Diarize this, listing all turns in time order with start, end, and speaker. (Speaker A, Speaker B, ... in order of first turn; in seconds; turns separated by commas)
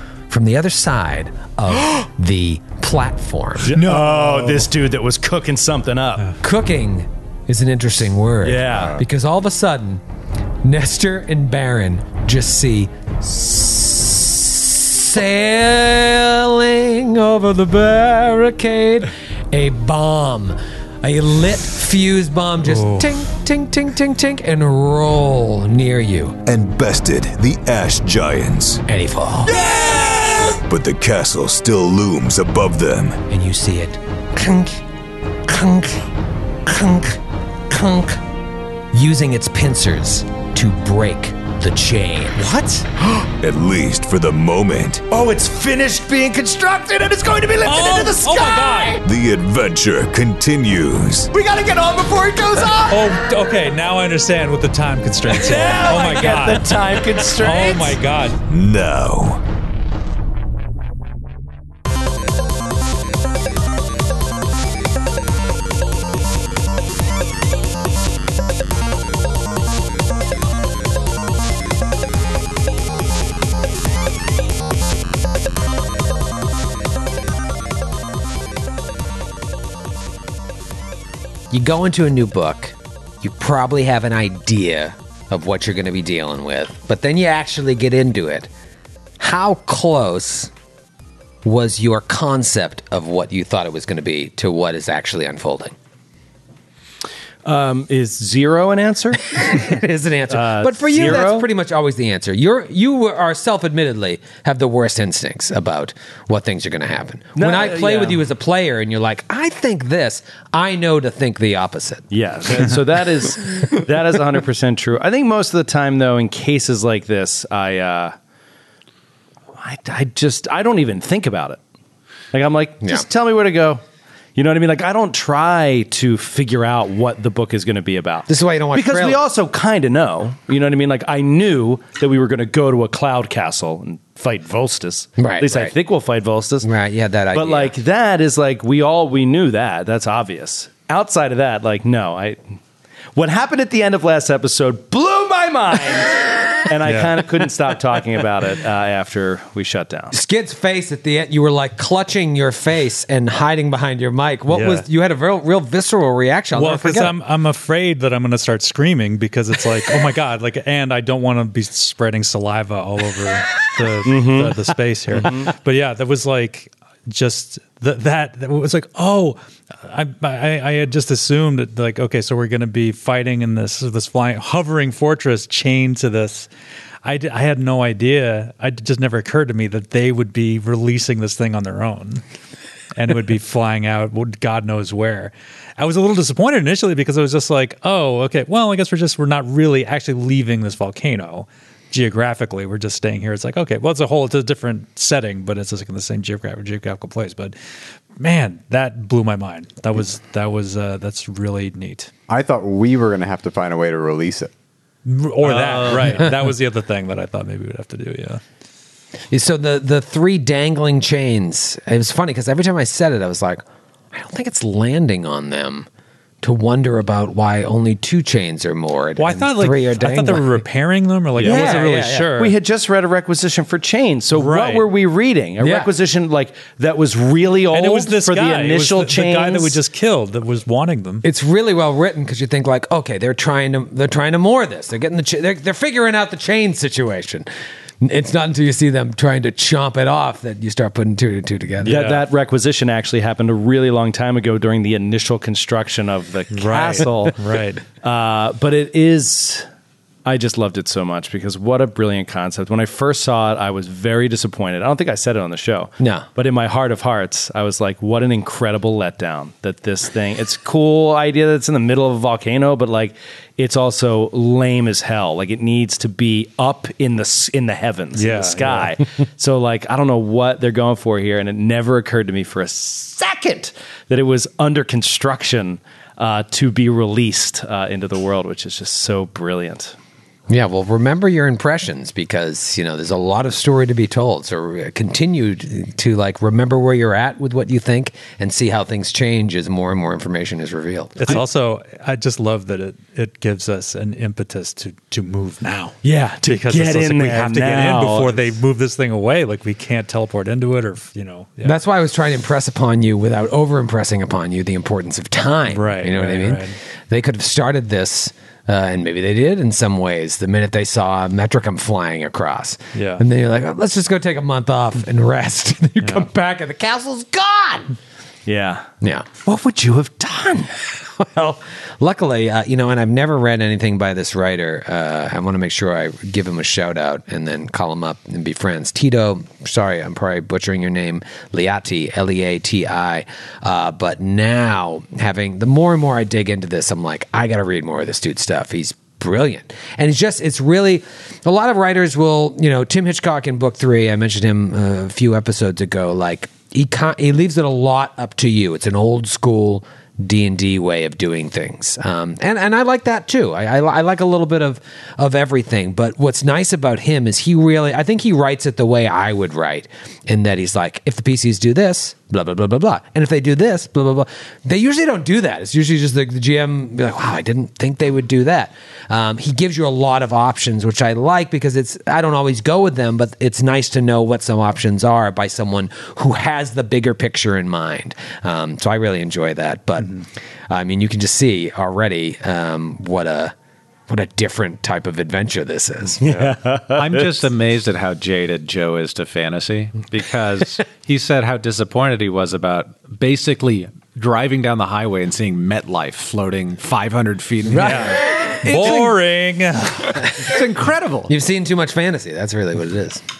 Speaker A: 0.3-3.8, Speaker B: 3.6-6.3, Speaker C: 3.8-4.7, Speaker A: 6.4-10.0, Speaker B: 8.4-9.0, Speaker A: 10.6-26.4, Speaker D: 26.4-28.8, Speaker A: 28.9-29.7, Speaker B: 29.6-30.5, Speaker D: 30.7-33.2, Speaker A: 33.3-34.8, Speaker A: 35.5-36.1, Speaker A: 36.7-37.2, Speaker A: 37.7-38.2, Speaker A: 38.9-42.4, Speaker B: 42.4-43.1, Speaker D: 43.4-45.0, Speaker B: 45.1-49.0, Speaker E: 47.6-49.0, Speaker D: 49.0-51.3, Speaker B: 51.3-53.2, Speaker E: 52.9-58.4, Speaker B: 55.3-58.0, Speaker D: 58.5-59.4, Speaker A: 81.5-88.5, Speaker A: 89.2-90.5, Speaker A: 91.4-95.7, Speaker B: 97.4-99.6, Speaker A: 99.4-112.0, Speaker B: 100.3-101.5, Speaker B: 107.3-108.2, Speaker B: 112.1-118.2, Speaker B: 119.6-121.6, Speaker B: 122.3-123.8, Speaker B: 124.3-136.7, Speaker A: 128.3-129.2, Speaker A: 135.2-135.7, Speaker A: 136.6-137.7, Speaker B: 137.3-142.4, Speaker B: 143.1-150.2, Speaker E: 146.8-147.2, Speaker A: 150.1-157.1, Speaker E: 154.5-154.8, Speaker E: 156.5-176.5, Speaker B: 164.0-164.6, Speaker B: 165.1-165.5, Speaker E: 177.0-182.2, Speaker E: 182.9-197.5, Speaker E: 198.2-202.1, Speaker F: 202.3-204.5, Speaker E: 205.0-208.4, Speaker A: 209.3-215.9, Speaker A: 216.4-220.6, Speaker E: 219.2-222.5, Speaker B: 221.4-221.8, Speaker A: 221.4-222.3, Speaker B: 222.4-229.8, Speaker E: 224.3-224.9, Speaker A: 225.6-225.9, Speaker E: 227.7-231.2, Speaker A: 231.2-237.5, Speaker A: 238.0-242.1, Speaker E: 241.8-242.2, Speaker B: 241.8-247.4, Speaker E: 246.5-247.8, Speaker B: 248.0-249.7, Speaker B: 250.2-279.9, Speaker A: 256.0-256.2, Speaker E: 268.1-268.9, Speaker A: 280.5-291.4, Speaker E: 291.2-301.8, Speaker B: 296.0-298.4, Speaker A: 301.6-317.9, Speaker E: 305.7-306.7, Speaker E: 312.9-313.2, Speaker B: 318.4-318.9, Speaker A: 319.0-319.3, Speaker B: 319.4-320.7, Speaker A: 321.1-380.2, Speaker A: 380.7-383.5, Speaker A: 384.1-386.2, Speaker B: 386.2-387.4, Speaker C: 386.9-398.1, Speaker B: 397.8-398.9, Speaker A: 397.8-399.1, Speaker E: 398.1-400.4, Speaker C: 400.4-401.3, Speaker A: 401.3-403.2